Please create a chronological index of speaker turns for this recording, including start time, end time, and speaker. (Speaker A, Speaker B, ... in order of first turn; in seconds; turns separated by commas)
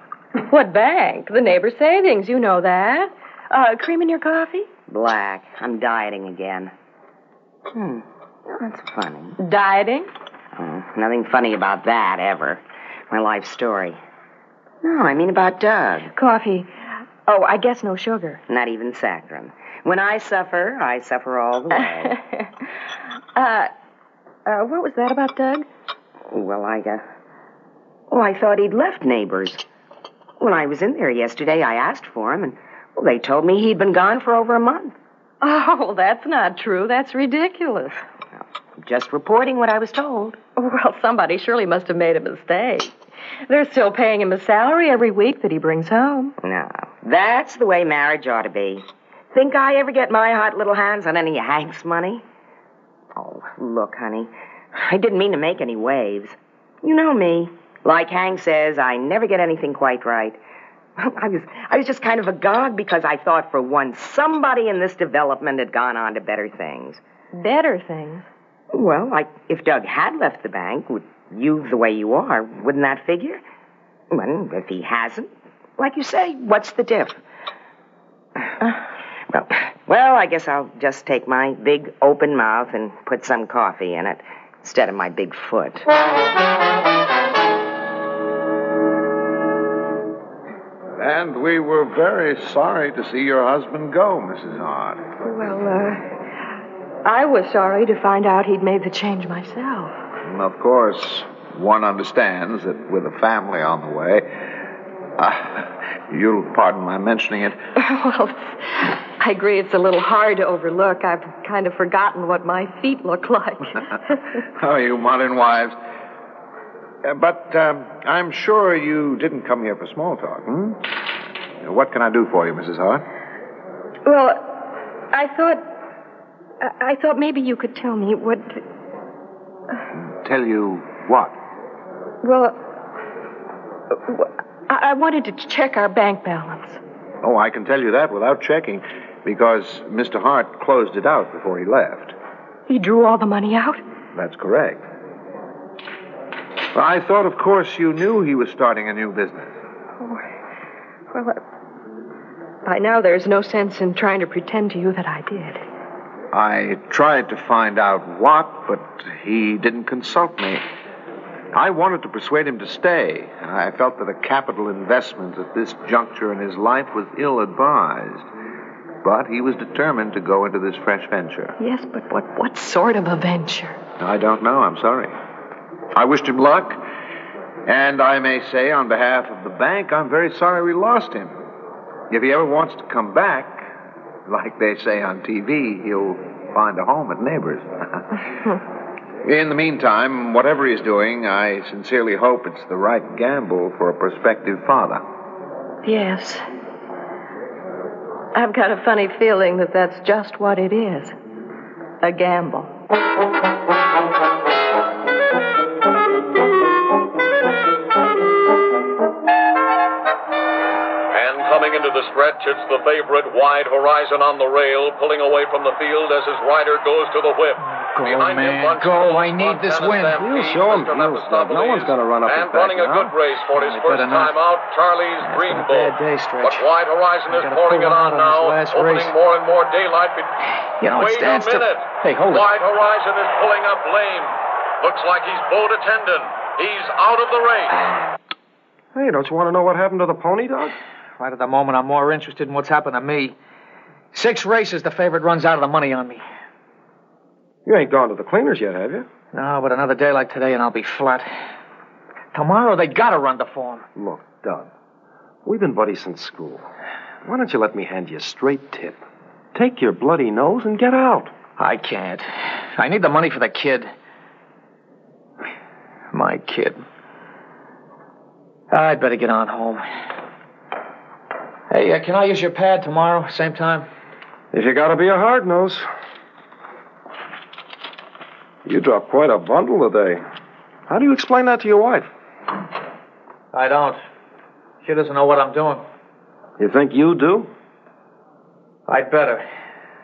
Speaker A: 0.4-4.7, Speaker B: 4.9-6.7, Speaker B: 7.7-9.3, Speaker A: 9.4-10.1, Speaker B: 10.6-14.0, Speaker B: 14.8-16.1, Speaker A: 16.1-16.7, Speaker A: 17.2-18.4, Speaker B: 18.5-22.1, Speaker A: 22.0-22.5, Speaker A: 23.3-23.7, Speaker A: 24.4-25.7, Speaker B: 26.3-27.0, Speaker B: 28.1-29.6, Speaker B: 30.4-34.9, Speaker A: 35.4-38.0, Speaker B: 38.8-40.4, Speaker A: 40.5-42.9, Speaker A: 43.5-46.4, Speaker B: 46.4-52.2, Speaker B: 53.1-60.4, Speaker B: 61.0-67.0, Speaker A: 67.3-68.2, Speaker B: 68.7-73.4, Speaker B: 74.1-77.2, Speaker B: 78.4-78.7, Speaker B: 79.3-85.9, Speaker C: 91.0-95.0, Speaker A: 95.2-96.0, Speaker A: 97.0-99.9, Speaker C: 100.2-104.3, Speaker C: 105.2-107.5, Speaker A: 107.8-114.2, Speaker C: 114.5-115.8, Speaker C: 117.0-120.8, Speaker C: 121.6-123.0, Speaker A: 124.0-124.6, Speaker A: 125.1-125.6, Speaker A: 126.6-128.6, Speaker C: 130.0-131.3, Speaker A: 132.2-132.6, Speaker A: 134.1-136.8, Speaker C: 137.2-142.1, Speaker A: 142.7-143.8, Speaker C: 144.1-144.8, Speaker C: 146.7-149.5, Speaker A: 151.1-151.4, Speaker A: 152.6-155.6, Speaker C: 156.3-160.6, Speaker C: 161.5-168.3, Speaker C: 169.0-171.5, Speaker A: 171.6-173.8, Speaker C: 174.0-175.1, Speaker C: 175.9-176.8, Speaker C: 177.7-181.3, Speaker C: 182.1-183.7, Speaker C: 184.3-187.7, Speaker C: 189.2-195.0, Speaker A: 195.8-196.4, Speaker A: 198.3-201.1, Speaker A: 202.0-202.7, Speaker D: 211.1-230.3, Speaker E: 217.6-220.2, Speaker F: 220.1-223.1, Speaker E: 223.5-224.4, Speaker E: 225.2-226.7, Speaker E: 227.3-229.2, Speaker E: 230.8-232.5, Speaker D: 230.9-237.8, Speaker F: 238.9-240.8, Speaker E: 241.2-243.3, Speaker E: 244.1-246.2, Speaker F: 247.7-249.1, Speaker E: 249.3-251.2, Speaker E: 252.3-253.8, Speaker F: 253.9-254.7, Speaker F: 255.4-256.7, Speaker F: 257.2-259.0, Speaker F: 259.5-261.3, Speaker E: 261.6-263.9, Speaker E: 266.1-266.8, Speaker E: 268.7-269.8, Speaker E: 271.7-273.9, Speaker F: 274.5-275.9, Speaker F: 278.6-280.2, Speaker F: 280.9-282.1, Speaker E: 283.5-284.0, Speaker E: 284.8-285.8, Speaker F: 286.6-287.5, Speaker E: 288.9-289.4